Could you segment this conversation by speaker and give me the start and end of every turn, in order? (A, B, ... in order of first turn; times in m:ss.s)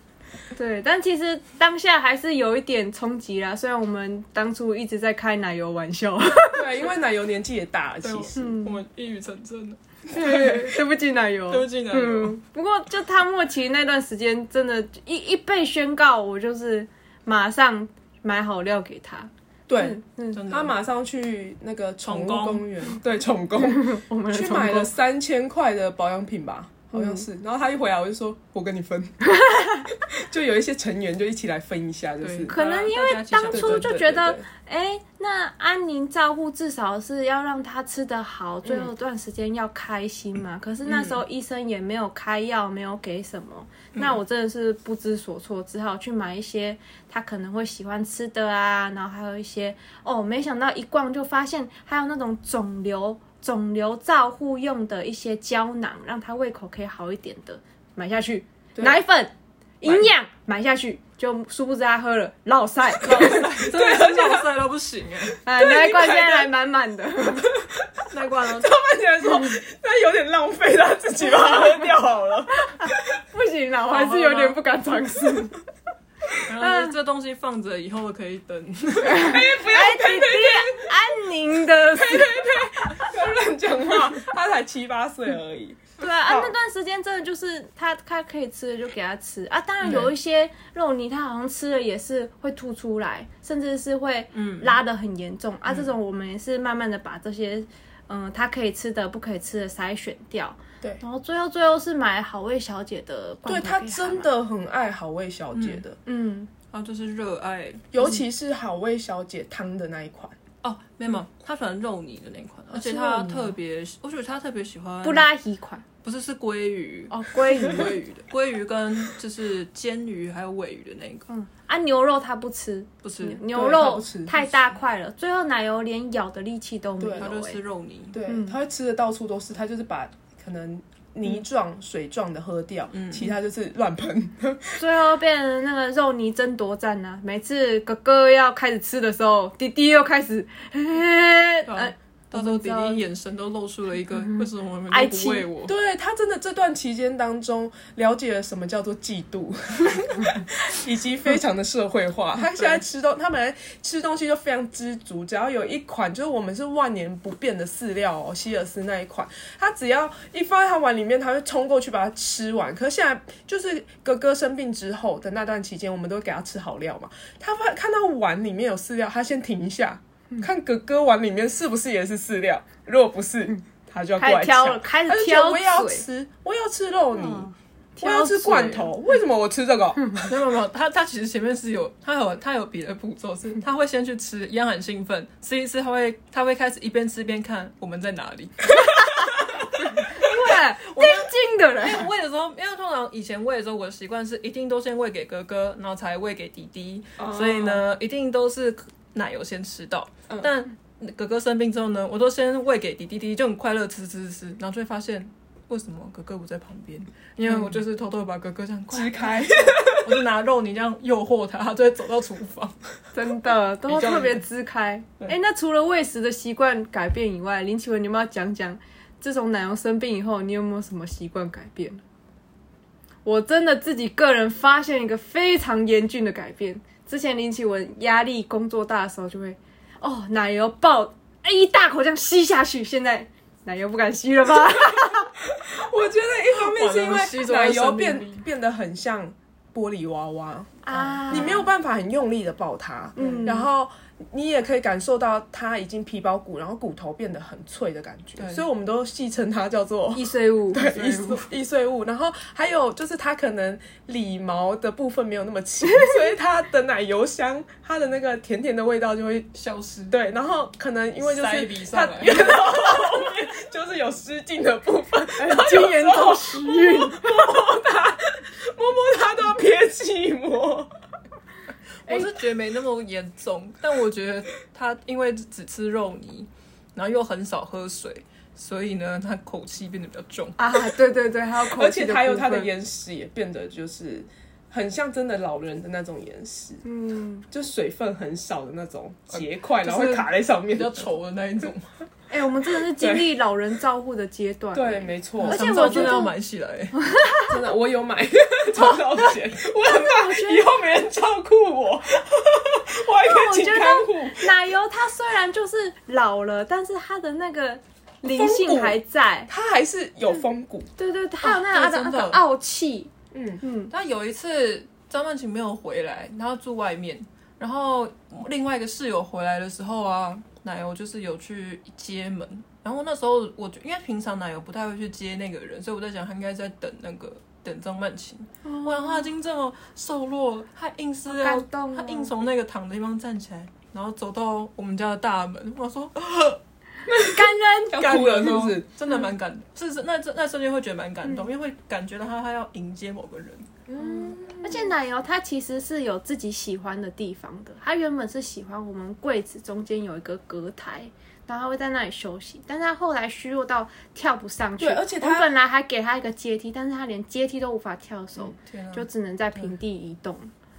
0:00.5-0:06.8 A
0:06.5-0:08.4 B
0:08.0-0:10.8 C
0:08.4-0:08.8 A
0:10.1-0:20.4 A
0:11.5-0:12.4 C
0:19.7-0:29.2 B
0:20.3-0:20.8 C
0:22.0-0:22.6 C
0:23.6-0:24.9 A
0:26.9-0:27.2 A
0:29.4-0:29.8 A
0:29.9-0:32.6 B
0:32.2-0:34.0 C
0:32.5-1:03.4 A
0:33.5-0:34.4 B
0:38.6-0:38.9 B
0:40.8-0:41.2 C
0:58.7-0:59.0 B
1:03.0-1:05.4 C
1:03.1-1:04.4 B
1:05.4-1:07.5 A
1:05.5-1:06.5 B
1:07.4-1:13.0 B
1:08.1-1:08.7 C
1:11.4-1:11.7 A
1:12.6-1:15.6 A
1:13.9-1:14.6 C
1:16.4-1:19.3 C
1:16.6-1:16.9 A
1:19.1-1:21.1 B
1:19.1-1:22.6 A
1:21.8-1:26.5 B
1:26.0-1:44.3 A
1:34.3-1:34.8 C
1:43.4-1:46.0 B
1:45.5-1:45.8 C
1:46.0-1:46.5 A
1:46.7-1:48.2 C
1:47.9-1:50.4 B
1:50.6-1:55.3 C
1:52.8-1:53.4 A
1:52.9-1:53.5 B
1:55.0-1:55.8 A
1:56.0-2:01.3 C
1:57.1-1:58.0 A
2:01.3-2:07.6 A
2:03.0-2:03.4 C
2:03.5-2:04.8 B
2:07.0-2:07.3 B
2:07.2-2:08.2 C
2:08.1-2:14.8 B
2:08.2-2:08.6 A
2:12.9-2:13.3 C
2:14.8-2:23.0 A
2:21.7-2:25.7 C
2:24.4-2:25.5 A
2:25.6-2:57.5 B
2:54.2-2:56.0 A
2:57.1-2:58.8 A
2:58.0-3:00.3 B
2:58.3-2:58.9 C
3:00.2-3:32.8 C
3:08.8-3:12.1 A
3:17.2-3:17.8 B
3:27.5-3:27.8 B
3:28.9-3:30.2 B
3:33.1-3:42.0 A
3:33.9-3:34.4 C
3:43.2-3:55.3 A
3:54.9-4:19.5 B
3:56.5-3:58.4 C
4:00.8-4:01.7 A
4:00.9-4:01.5 C
4:03.2-4:03.7 A
4:08.4-4:08.6 C
4:10.1-4:11.4 A
4:19.5-4:20.2 C
4:20.1-4:30.9 B
4:21.2-4:22.6 C
4:25.4-4:27.4 A
4:32.0-4:40.6 C
4:40.6-4:42.7 A
4:41.6-4:46.8 B
4:46.8-4:47.4 A
4:47.5-4:51.1 B
4:49.3-4:51.9 C
4:52.3-4:56.3 A
4:53.0-4:53.3 B
4:54.7-4:56.2 B
4:55.4-4:57.0 C
4:57.0-4:57.5 A
4:57.5-5:04.6 B
4:59.8-5:00.7 A
5:03.2-5:09.5 A
5:08.2-5:10.9 B
5:11.0-5:13.9 A
5:11.4-5:12.4 C
5:13.3-5:13.6 B
5:13.9-5:36.6 C
5:28.6-5:29.3 A
5:31.2-5:32.3 A
5:37.1-5:38.9 B
5:37.3-5:38.2 A
5:38.0-5:43.7 C
5:43.9-5:44.9 B
5:44.0-6:00.5 A
5:54.8-5:55.5 B
5:58.5-5:59.7 C